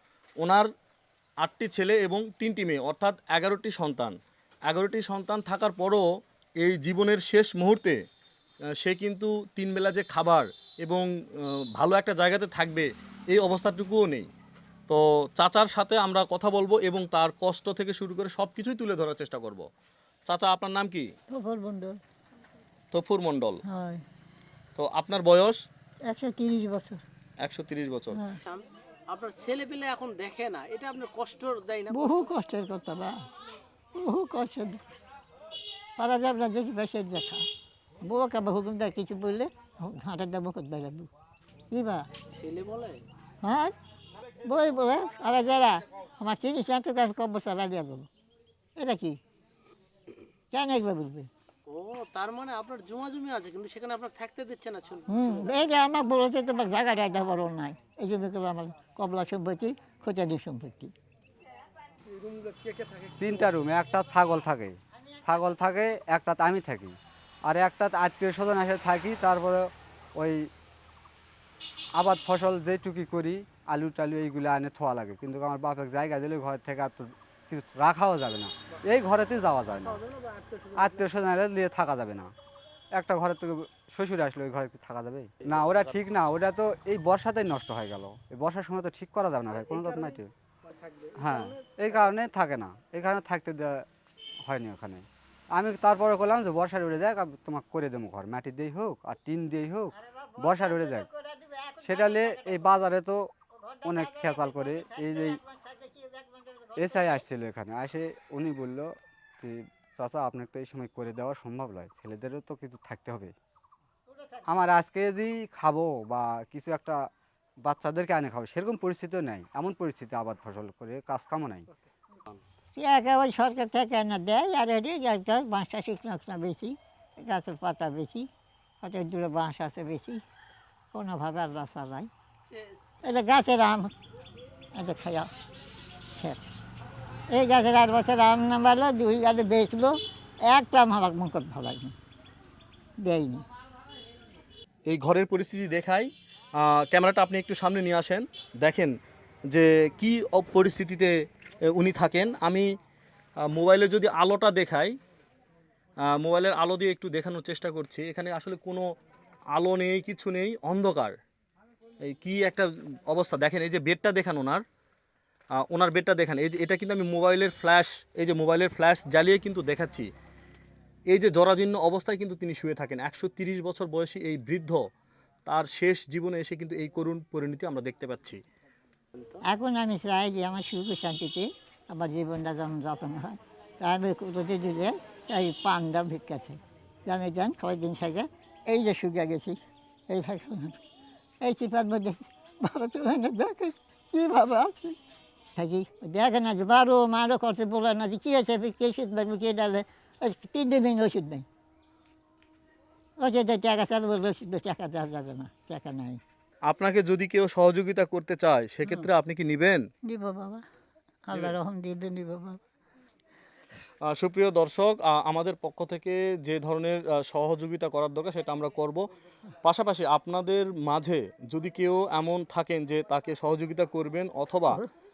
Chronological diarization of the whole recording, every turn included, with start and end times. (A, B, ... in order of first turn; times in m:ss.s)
0:00.4-0:00.7 A
0:01.4-0:04.2 A
0:04.7-0:06.0 A
0:06.6-0:08.0 A
0:08.8-0:14.3 A
0:14.9-0:19.7 A
0:20.3-0:21.1 A
0:21.3-0:22.0 B
0:22.9-0:23.6 A
0:23.7-0:24.0 B
0:24.8-0:25.6 A
0:26.1-0:27.0 B
0:27.4-0:28.2 A
0:28.1-0:28.4 B
0:28.4-0:32.3 C
0:31.9-0:33.2 B
0:34.0-0:34.9 B
0:36.0-0:37.4 B
0:38.0-0:41.1 B
0:41.7-0:42.1 B
0:42.3-0:43.0 C
0:43.4-0:43.7 B
0:44.4-0:48.1 B
0:48.8-0:49.2 B
0:50.5-0:51.3 B
0:51.7-0:55.5 C
0:55.1-1:00.9 B
1:02.1-1:03.2 C
1:03.2-1:10.5 D
1:12.0-1:20.0 D
1:19.8-1:21.0 C
1:20.8-1:22.3 D
1:22.9-1:30.3 D
1:29.5-1:31.7 C
1:31.2-1:33.8 D
1:34.4-1:41.1 D
1:40.0-1:42.9 B
1:41.8-1:43.3 D
1:43.5-1:47.3 B
1:43.8-1:45.4 D
1:46.8-1:53.3 D
1:54.5-1:57.0 D
1:57.6-2:01.7 D
2:02.8-2:08.3 B
2:08.8-2:10.2 B
2:10.9-2:12.1 B
2:13.0-2:13.9 B
2:14.8-2:15.3 B
2:16.2-2:16.5 B
2:17.3-2:22.0 B
2:23.0-2:23.5 B
2:24.9-2:28.9 A
2:29.5-2:31.1 A
2:31.7-2:32.7 A
2:33.4-2:35.0 A
2:36.1-2:38.9 A
2:39.5-2:41.2 A
2:42.0-2:44.6 A
2:45.6-2:50.1 A
2:51.1-2:54.8 A
2:55.5-2:58.4 A
2:59.5-3:10.8 B
3:11.4-3:15.0 B
3:15.6-3:21.5 B
3:23.2-3:26.2 B
3:26.7-3:29.8 A
3:30.1-3:30.6 B
3:31.3-3:32.6 B
3:34.0-3:39.0 A
3:39.6-3:44.8 A